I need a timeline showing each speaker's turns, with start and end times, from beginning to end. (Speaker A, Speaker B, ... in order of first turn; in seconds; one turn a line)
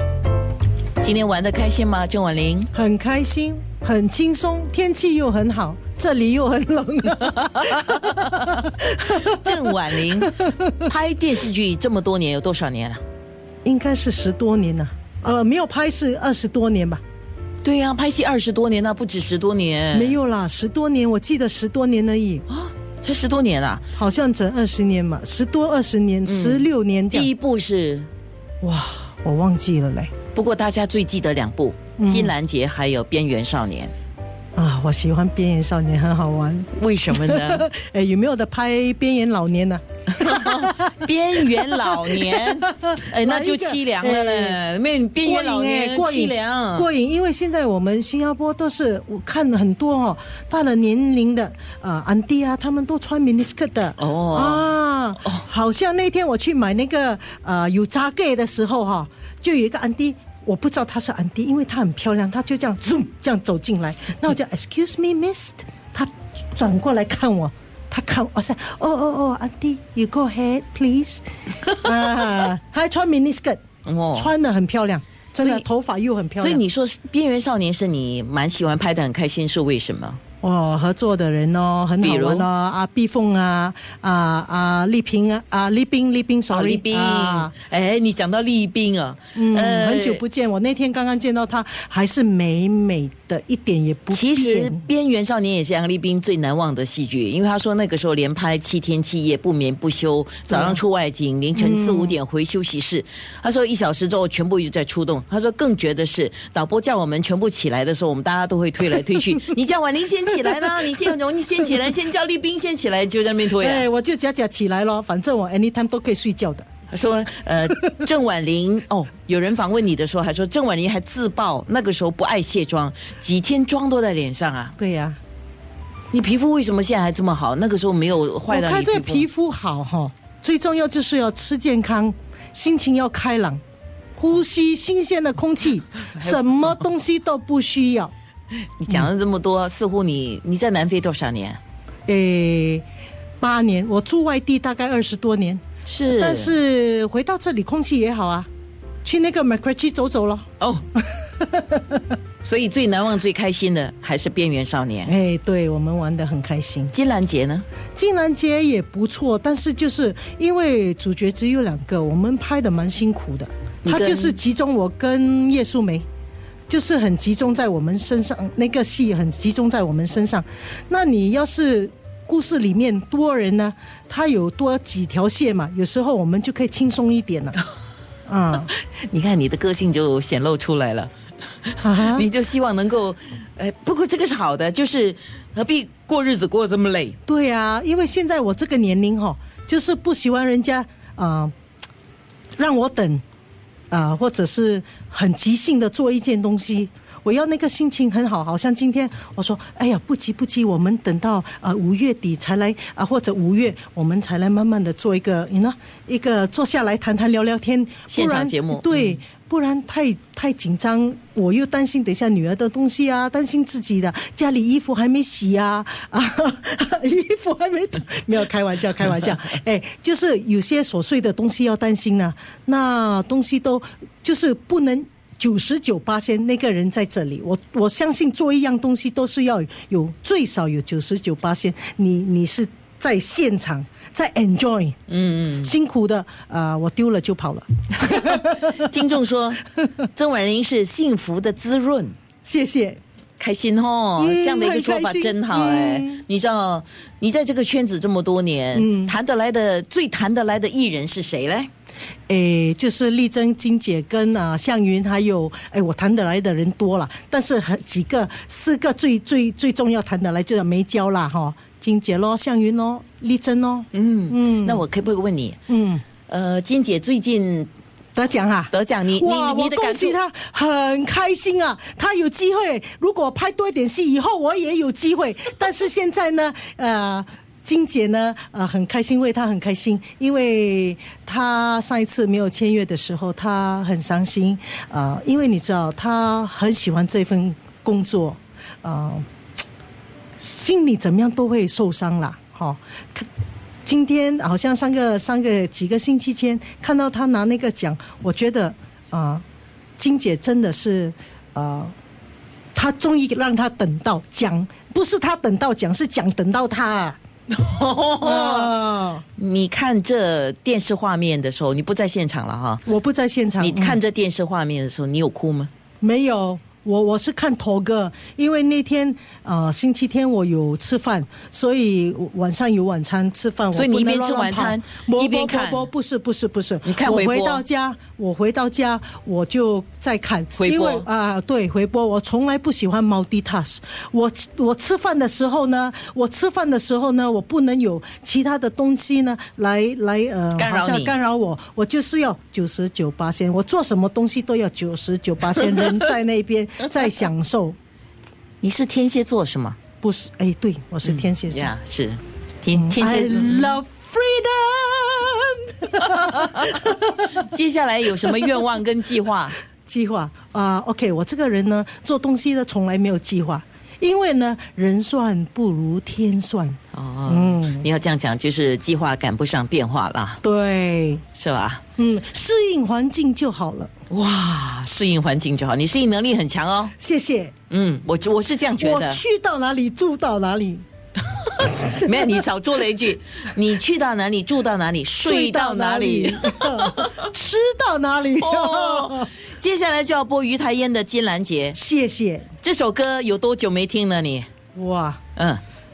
Speaker A: 1.0-2.7
Speaker B: 2.7-10.8
Speaker A: 7.4-8.6
Speaker A: 9.2-13.0
Speaker B: 13.6-17.0
Speaker A: 17.6-20.2
Speaker B: 19.9-22.4
Speaker A: 22.5-23.8
Speaker B: 23.9-27.3
Speaker A: 26.2-28.1
Speaker B: 28.6-30.1
Speaker A: 30.3-33.9
Speaker B: 32.0-32.3
Speaker B: 34.5-44.6
Speaker A: 36.7-37.7
Speaker A: 40.1-46.9
Speaker B: 45.2-73.6
Speaker A: 54.0-54.7
Speaker A: 73.8-74.3
Speaker B: 74.1-76.6
Speaker A: 75.4-75.6
Speaker A: 76.4-80.2
Speaker B: 80.4-87.5
Speaker A: 82.0-82.5
Speaker A: 86.5-90.2
Speaker B: 89.3-94.8
Speaker A: 94.1-113.8
Speaker B: 100.5-100.8
Speaker B: 101.5-102.2
Speaker B: 113.6-116.7
Speaker A: 116.9-124.7
Speaker B: 124.8-125.2
Speaker A: 126.1-129.3
Speaker B: 128.5-133.6
Speaker B: 134.2-138.1
Speaker A: 138.8-141.6
Speaker B: 142.1-142.8
Speaker B: 143.4-145.6
Speaker A: 145.8-146.5
Speaker B: 146.1-148.5
Speaker B: 149.0-150.4
Speaker B: 151.0-152.0
Speaker A: 152.4-155.1
Speaker B: 155.0-156.9
Speaker A: 156.9-157.6
Speaker B: 157.9-166.0
Speaker A: 163.8-164.4
Speaker B: 166.7-177.6
Speaker B: 178.3-178.7
Speaker A: 178.7-181.1
Speaker A: 181.7-187.2
Speaker B: 181.8-182.3
Speaker B: 187.3-191.5
Speaker B: 192.6-193.2
Speaker B: 193.9-234.9
Speaker A: 208.1-209.1
Speaker A: 235.1-235.7
Speaker B: 235.6-238.6
Speaker A: 238.1-242.1
Speaker B: 242.4-243.0
Speaker A: 243.4-251.7
Speaker B: 244.2-246.2
Speaker B: 248.7-249.1
Speaker B: 252.3-264.8
Speaker A: 263.9-265.6
Speaker B: 265.7-266.0
Speaker A: 266.3-267.7
Speaker B: 268.1-289.2
Speaker A: 268.7-270.2
Speaker B: 290.4-293.3
Speaker B: 293.9-299.4
Speaker B: 300.0-301.9
Speaker B: 302.7-307.2
Speaker A: 307.5-308.7
Speaker B: 308.2-309.2
Speaker A: 309.4-312.8
Speaker B: 312.9-314.0
Speaker A: 313.6-315.7
Speaker B: 316.0-347.8
Speaker A: 323.7-325.9
Speaker A: 326.8-327.6
Speaker A: 330.6-331.1
Speaker A: 340.6-341.1
Speaker A: 348.6-349.8
Speaker B: 350.0-351.7
Speaker A: 351.0-353.8
Speaker B: 352.7-357.4
Speaker A: 356.2-359.6
Speaker B: 359.9-367.9
Speaker A: 366.9-370.4
Speaker B: 370.4-371.2
Speaker A: 371.3-371.8
Speaker B: 372.0-373.9
Speaker A: 374.1-376.9
Speaker B: 377.0-377.5
Speaker A: 377.7-379.2
Speaker B: 378.8-380.8
Speaker B: 381.7-382.4
Speaker A: 381.9-387.1
Speaker B: 385.2-389.3
Speaker A: 388.4-391.8
Speaker B: 391.7-392.5
Speaker A: 392.6-394.5
Speaker B: 394.7-395.2
Speaker A: 395.4-395.6